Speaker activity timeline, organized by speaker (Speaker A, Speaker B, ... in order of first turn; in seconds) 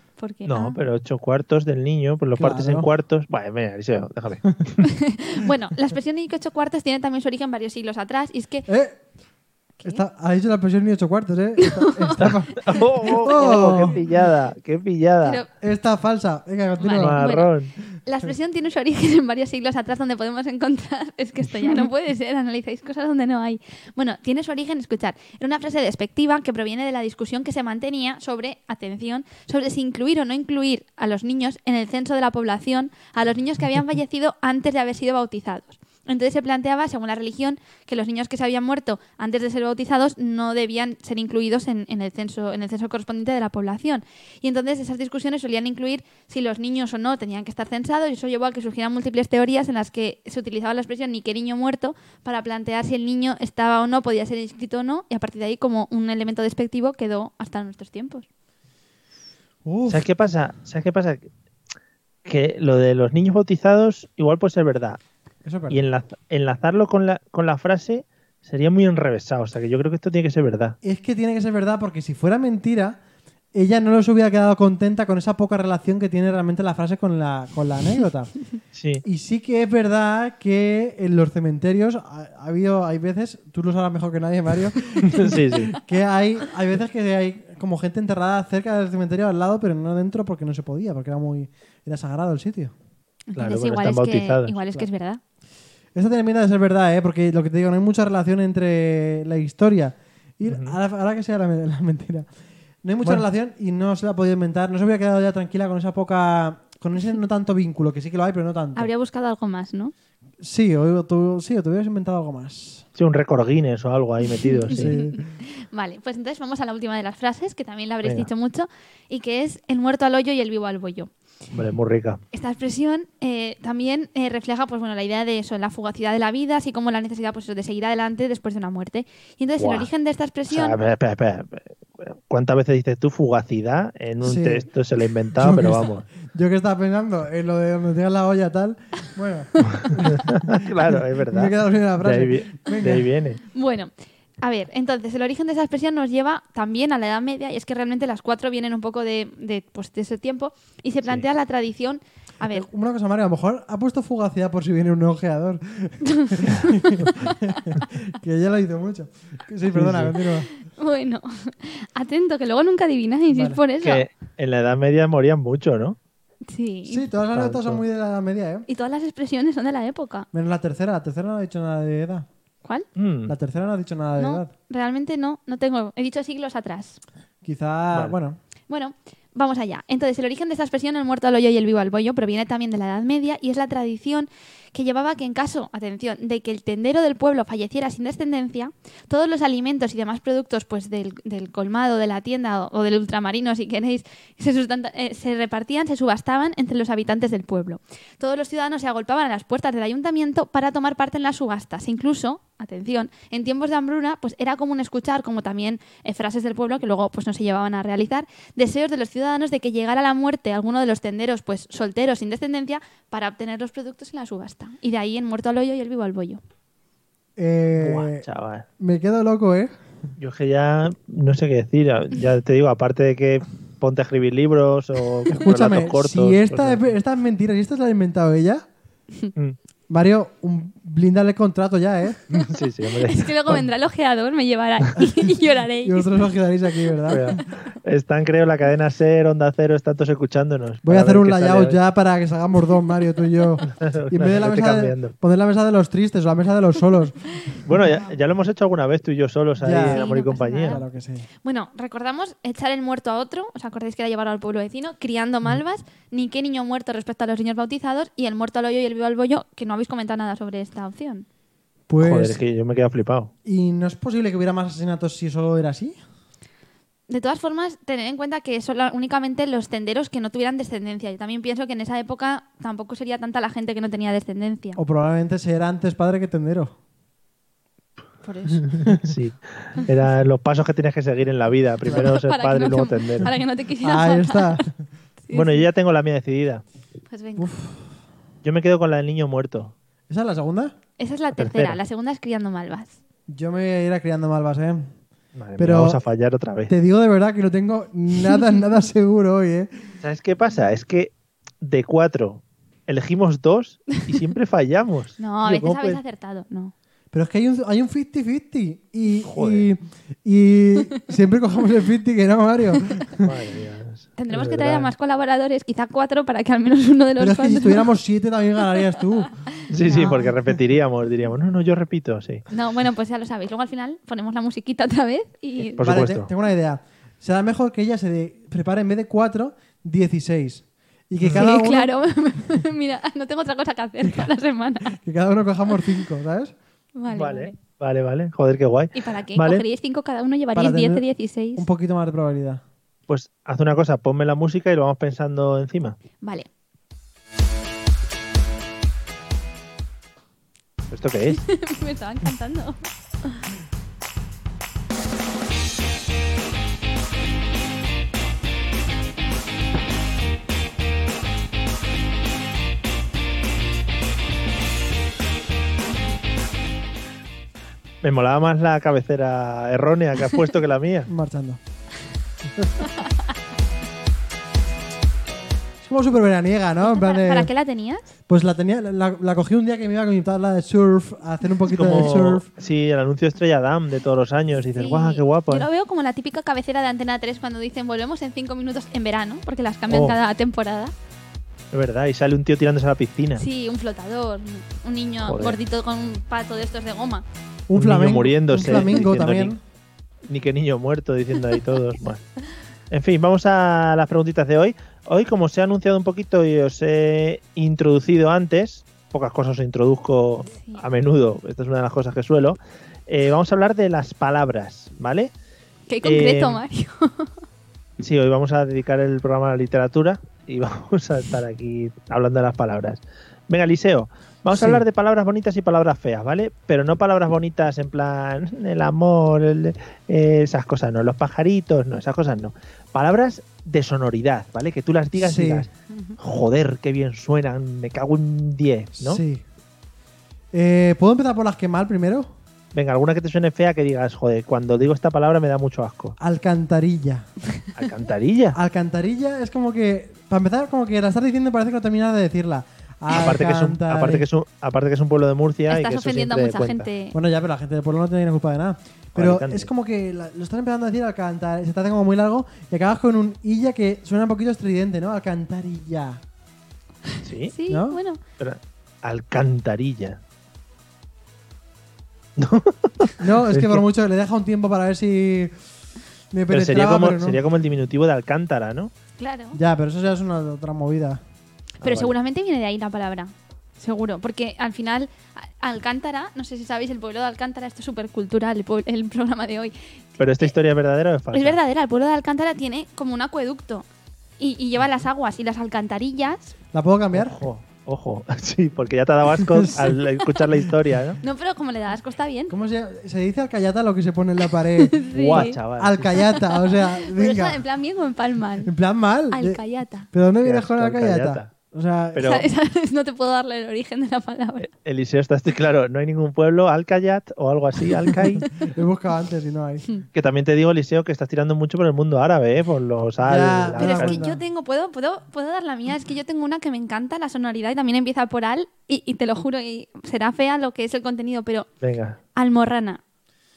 Speaker A: 0.2-0.8, 4.9-8.7, 11.6-14.0, 15.2-15.5, 16.8-17.5, 18.0-58.2, 93.3-95.2, 108.8-109.9, 114.4-121.1, 122.3-130.8, 143.5-152.7, 156.0-157.8, 160.7-164.0, 166.5-167.1, 168.7-170.3, 174.2-177.0, 178.7-216.4, 233.0-236.2, 249.9-250.8, 251.4-261.2, 267.1-274.8, 278.2-278.6, 281.9-284.6, 285.3-285.6, 287.1-287.5, 291.0-292.9, 305.2-306.7, 314.2-317.9, 319.6-320.2, 322.5-325.9, 331.3-334.9, 337.0-337.5, 338.9-341.6, 346.2-346.5, 351.3-353.4, 376.8-378.0, 384.8-390.9, 393.4-397.2, 415.9-417.3, 435.9-436.2, 455.7-457.1, 467.5-468.2, 479.2-479.6, 481.8-490.5, 491.3-493.9, 494.4-496.5, 501.2-502.5, 504.8-505.6, 506.1-508.7, 509.3-510.1, 512.2-514.7, 523.8-531.7, 532.3-533.0
Speaker B: 0.5-4.8, 12.2-15.4, 17.0-17.7, 59.9-61.3, 62.2-65.0, 65.7-70.8, 78.7-79.0, 85.1-85.8, 93.3-94.5, 100.5-100.8, 113.0-115.0, 121.5-122.2, 129.6-129.9, 130.5-136.1, 140.0-143.4, 159.7-160.1, 163.8-166.0, 167.3-167.8, 172.9-173.3, 217.8-218.7, 220.2-226.9, 232.3-233.6, 237.1-241.8, 243.7-245.1, 247.6-250.8, 262.0-263.3, 278.9-283.3, 285.3-286.6, 288.4-289.7, 291.3-291.8, 295.3-296.7, 300.0-306.0, 309.2-309.7, 313.1-314.9, 319.7-322.4, 325.8-326.3, 337.1-339.6, 343.1-346.0, 350.9-351.4, 368.0-371.1, 381.7-385.7, 389.9-390.2, 391.7-393.4, 395.2-395.6, 397.7-399.5, 400.3-402.2, 402.9-415.3, 416.0-416.6, 418.0-439.2, 442.7-446.1, 447.7-448.6, 453.1-456.9, 459.1-459.7, 467.2-467.5, 468.4-470.2, 472.4-473.8, 476.5-478.9, 481.8-482.1, 490.2-491.6, 497.1-501.2, 505.1-506.1, 510.4-511.5, 512.1-512.5, 514.6-518.5, 520.1-524.2, 531.8-532.2
Speaker C: 2.3-2.9, 8.7-9.0, 9.8-13.9, 15.6-17.2, 59.6-60.0, 65.4-65.8, 70.8-73.0, 73.5-78.3, 79.0-92.7, 95.9-102.3, 102.8-108.9, 110.4-112.8, 114.7-115.2, 134.2-134.7, 135.4-143.1, 152.4-160.5, 163.3-163.6, 166.9-168.7, 170.3-172.3, 173.3-174.5, 177.4-178.4, 217.4-218.2, 218.8-219.8, 225.3-228.6, 229.9-232.2, 235.8-237.4, 240.8-247.3, 249.6-250.0, 250.6-251.3, 261.9-262.4, 263.4-266.0, 274.8-276.7, 283.8-284.8, 287.4-287.9, 290.1-290.7, 293.3-294.9, 295.6-296.0, 296.7-299.7, 307.1-313.3, 317.2-319.3, 325.8-331.9, 334.9-336.5, 340.5-342.6, 371.1-371.6, 375.8-377.5, 378.3-382.4, 397.7-399.6, 424.5-424.8, 435.1-435.7, 439.0-439.4, 440.5-442.3, 446.2-447.3, 448.5-454.2, 457.1-466.2, 467.7-468.0, 473.2-475.5, 476.3-477.4, 479.5-481.2, 496.7-497.4, 499.4-499.8, 502.5-507.6, 508.6-512.3, 518.6-519.9, 523.2-524.4